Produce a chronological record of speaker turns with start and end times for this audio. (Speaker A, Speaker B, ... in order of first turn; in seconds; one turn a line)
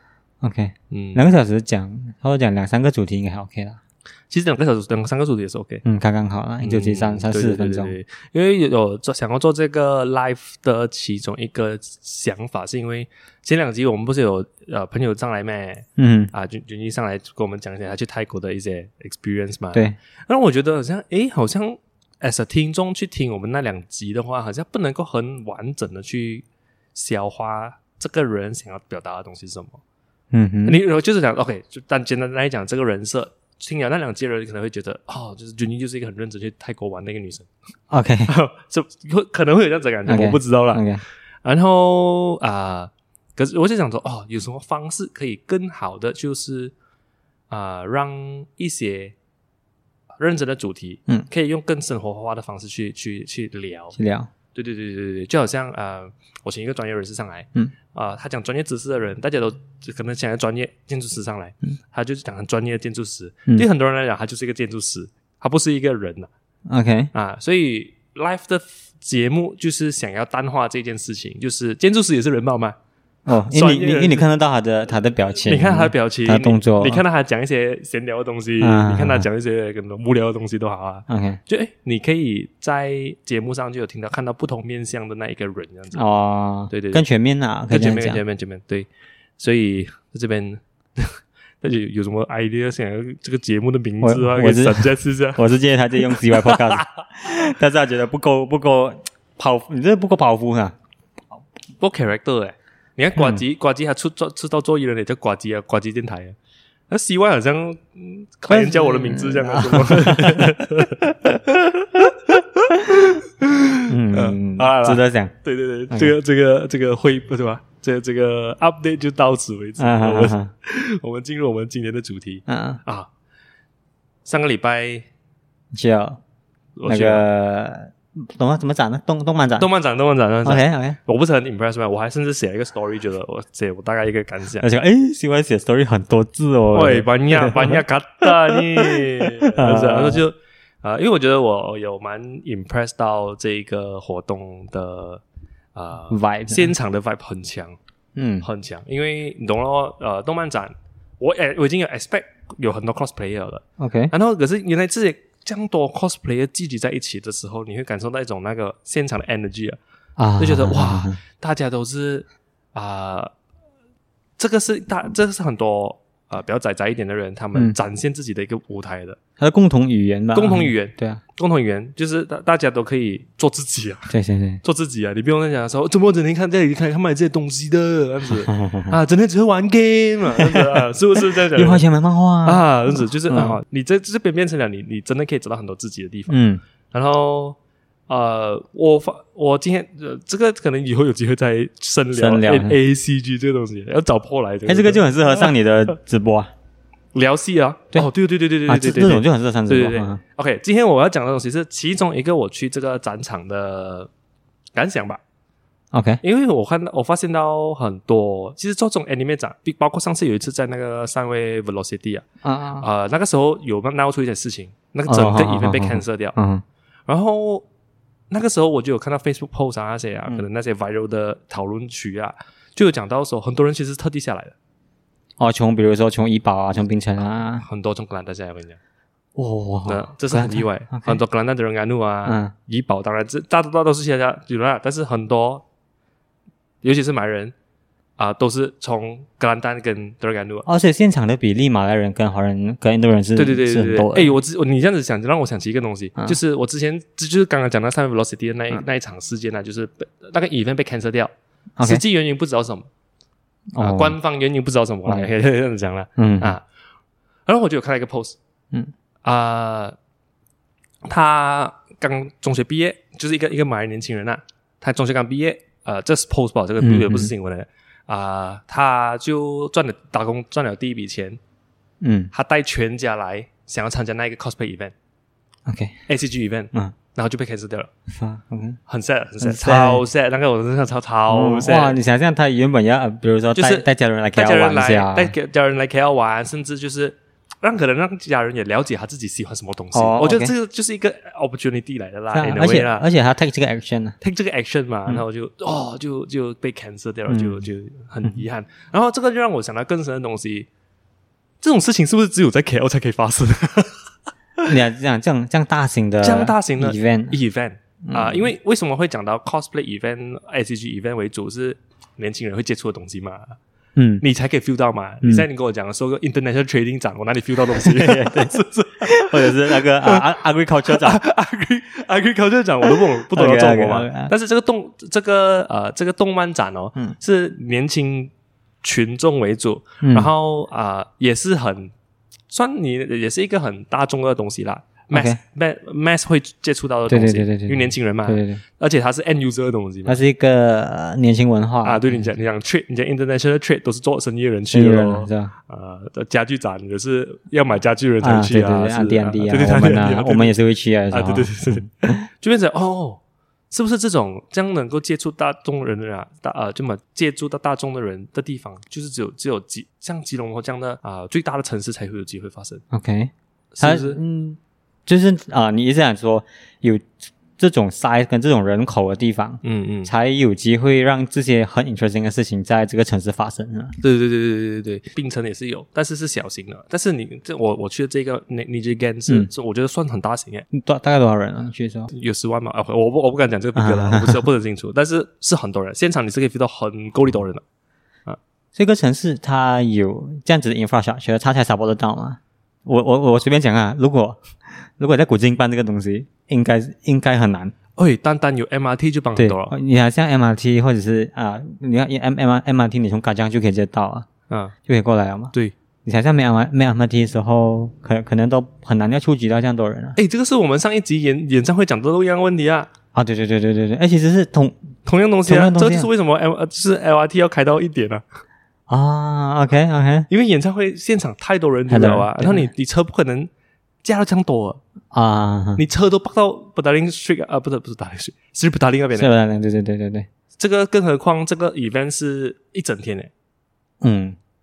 Speaker A: 0.4-3.8
Speaker B: 0.9-1.2
Speaker B: 4.3-5.8
Speaker A: 5.8-7.9
Speaker B: 6.6-29.8
Speaker A: 16.0-16.3
Speaker A: 30.3-30.8
Speaker B: 30.7-37.5
Speaker A: 37.9-38.3
Speaker B: 38.3-40.8
Speaker A: 40.0-41.0
Speaker B: 41.4-46.7
Speaker B: 47.5-49.1
Speaker B: 50.2-54.0
Speaker A: 54.0-54.3
Speaker B: 54.5-66.3
Speaker A: 66.7-67.1
Speaker B: 67.1-72.8
Speaker A: 73.2-77.0
Speaker B: 73.5-74.2
Speaker B: 75.5-86.0
Speaker A: 78.6-79.3
Speaker A: 81.1-81.4
Speaker A: 85.9-88.2
Speaker B: 86.7-87.0
Speaker B: 87.7-88.9
Speaker B: 89.4-95.4
Speaker A: 94.0-100.8
Speaker B: 96.1-96.8
Speaker B: 101.8-106.4
Speaker A: 103.2-103.4
Speaker B: 106.9-123.1
Speaker A: 108.5-110.6
Speaker A: 113.9-115.3
Speaker A: 119.8-120.5
Speaker A: 122.5-122.8
Speaker B: 124.2-125.1
Speaker A: 125.7-126.2
Speaker B: 126.8-127.2
Speaker A: 126.9-129.7
Speaker B: 129.6-134.7
Speaker A: 130.4-131.0
Speaker A: 134.6-140.2
Speaker B: 136.7-145.2
Speaker B: 145.8-147.8
Speaker A: 146.1-146.7
Speaker A: 148.2-148.5
Speaker B: 148.4-159.8
Speaker A: 153.8-154.1
Speaker A: 160.2-161.2
Speaker B: 160.4-163.3
Speaker B: 164.4-169.2
Speaker A: 169.4-171.2
Speaker B: 170.3-174.1
Speaker A: 174.1-174.6
Speaker B: 174.6-181.8
Speaker A: 178.5-179.0
Speaker A: 180.4-180.8
Speaker A: 181.6-183.6
Speaker B: 182.4-187.6
Speaker A: 186.3-186.6
Speaker B: 188.1-195.5
Speaker A: 192.1-192.8
Speaker A: 194.7-196.5
Speaker B: 197.1-204.1
Speaker A: 198.7-200.2
Speaker B: 204.8-205.2
Speaker A: 205.9-206.2
Speaker B: 206.2-212.2
Speaker A: 212.4-212.9
Speaker B: 212.8-216.4
Speaker A: 215.1-216.6
Speaker B: 217.1-217.7
Speaker B: 218.3-224.6
Speaker A: 225.4-227.6
Speaker B: 227.6-228.8
Speaker A: 229.4-231.2
Speaker B: 229.9-235.6
Speaker A: 232.2-232.5
Speaker B: 236.8-237.5
Speaker B: 238.2-240.7
Speaker A: 240.7-244.4
Speaker B: 243.4-252.9
Speaker A: 251.8-252.0
Speaker A: 253.7-254.2
Speaker B: 253.8-256.6
Speaker A: 255.1-255.3
Speaker A: 256.2-256.6
Speaker B: 257.5-258.4
Speaker B: 259.2-259.9
Speaker B: 261.1-271.4
Speaker A: 266.8-267.3
Speaker A: 272.0-272.3
Speaker B: 272.3-274.9
Speaker A: 275.6-275.9
Speaker B: 276.1-277.9
Speaker A: 278.1-278.8
Speaker B: 278.9-282.0
Speaker A: 279.4-280.0
Speaker A: 281.3-285.3
Speaker B: 283.6-293.1
Speaker A: 289.9-290.5
Speaker A: 292.3-294.2
Speaker B: 294.2-300.7
Speaker A: 297.3-297.7
Speaker B: 301.6-304.0
Speaker A: 304.6-307.4
Speaker B: 306.2-313.6
Speaker A: 308.0-308.5
Speaker A: 313.9-314.2
Speaker B: 314.2-320.2
Speaker A: 317.7-321.2
Speaker B: 320.9-328.3
Speaker A: 323.3-324.3
Speaker B: 328.8-331.9
Speaker A: 330.0-330.3
Speaker B: 332.5-340.2
Speaker A: 335.1-335.4
Speaker A: 337.1-338.6
Speaker A: 340.1-342.2
Speaker B: 341.8-350.5
Speaker A: 344.7-345.5
Speaker A: 348.2-352.2
Speaker B: 351.1-362.8
Speaker A: 362.9-374.0
Speaker B: 363.7-364.2
Speaker B: 369.6-370.1
Speaker B: 374.0-380.6
Speaker A: 380.7-382.1
Speaker B: 382.1-387.6
Speaker A: 383.8-384.4
Speaker A: 388.8-397.7
Speaker B: 398.0-399.8
Speaker A: 399.4-404.3
Speaker B: 404.5-404.8
Speaker A: 404.9-405.5
Speaker A: 406.0-410.2
Speaker B: 410.1-412.9
Speaker A: 413.1-414.8
Speaker B: 415.1-418.2
Speaker A: 415.5-416.1
Speaker A: 418.9-420.3
Speaker B: 420.3-423.5
Speaker A: 421.9-422.7
Speaker B: 424.0-424.8
Speaker A: 425.1-425.8
Speaker B: 425.8-429.3
Speaker A: 429.1-430.3
Speaker B: 430.6-433.3
Speaker A: 434.0-434.4